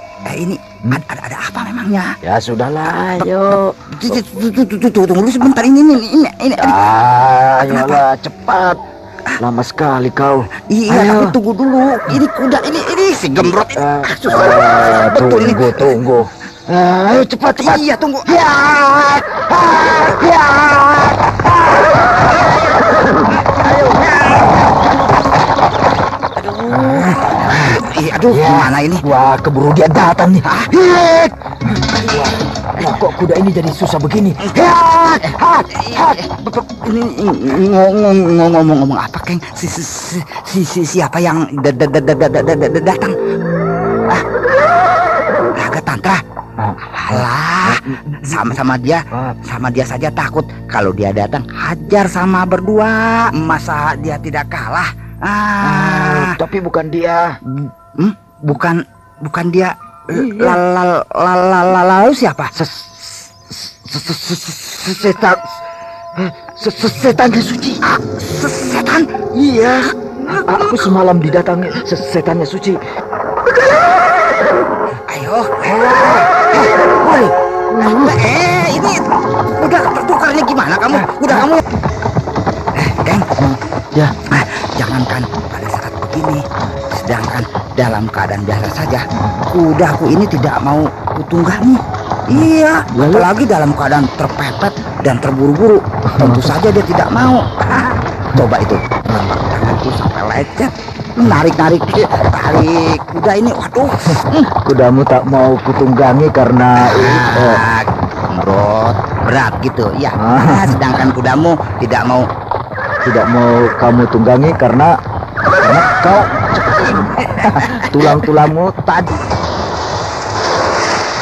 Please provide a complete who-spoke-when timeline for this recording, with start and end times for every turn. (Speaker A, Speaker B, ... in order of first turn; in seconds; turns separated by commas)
Speaker A: 0.2-2.1, Speaker B: 2.2-4.2, Speaker A: 3.9-6.8, Speaker B: 6.6-8.8, Speaker A: 7.7-8.0, Speaker B: 9.4-11.4, Speaker A: 10.7-15.9, Speaker B: 13.4-21.7, Speaker A: 17.4-18.3, Speaker A: 19.8-21.3, Speaker A: 23.5-24.6, Speaker B: 23.7-24.5, Speaker A: 26.4-29.0, Speaker B: 26.7-31.3, Speaker B: 31.9-36.2, Speaker A: 34.4-43.1, Speaker A: 45.5-46.2, Speaker B: 46.6-48.6, Speaker A: 46.9-56.3, Speaker B: 55.6-57.4, Speaker A: 57.5-62.5, Speaker B: 60.1-60.6, Speaker B: 62.5-65.5, Speaker B: 66.2-67.8, Speaker A: 67.9-69.1, Speaker B: 69.3-72.8, Speaker A: 70.3-70.9, Speaker A: 75.1-76.2, Speaker B: 75.6-78.1, Speaker A: 77.8-79.0, Speaker A: 79.6-81.6, Speaker B: 80.9-81.5, Speaker A: 82.8-83.2, Speaker B: 83.4-84.2, Speaker A: 84.3-104.5, Speaker B: 89.2-89.4, Speaker B: 92.9-93.3, Speaker B: 96.1-96.5, Speaker B: 104.6-107.6, Speaker A: 106.8-112.3, Speaker B: 110.2-110.8, Speaker B: 113.0-114.9, Speaker B: 115.6-119.1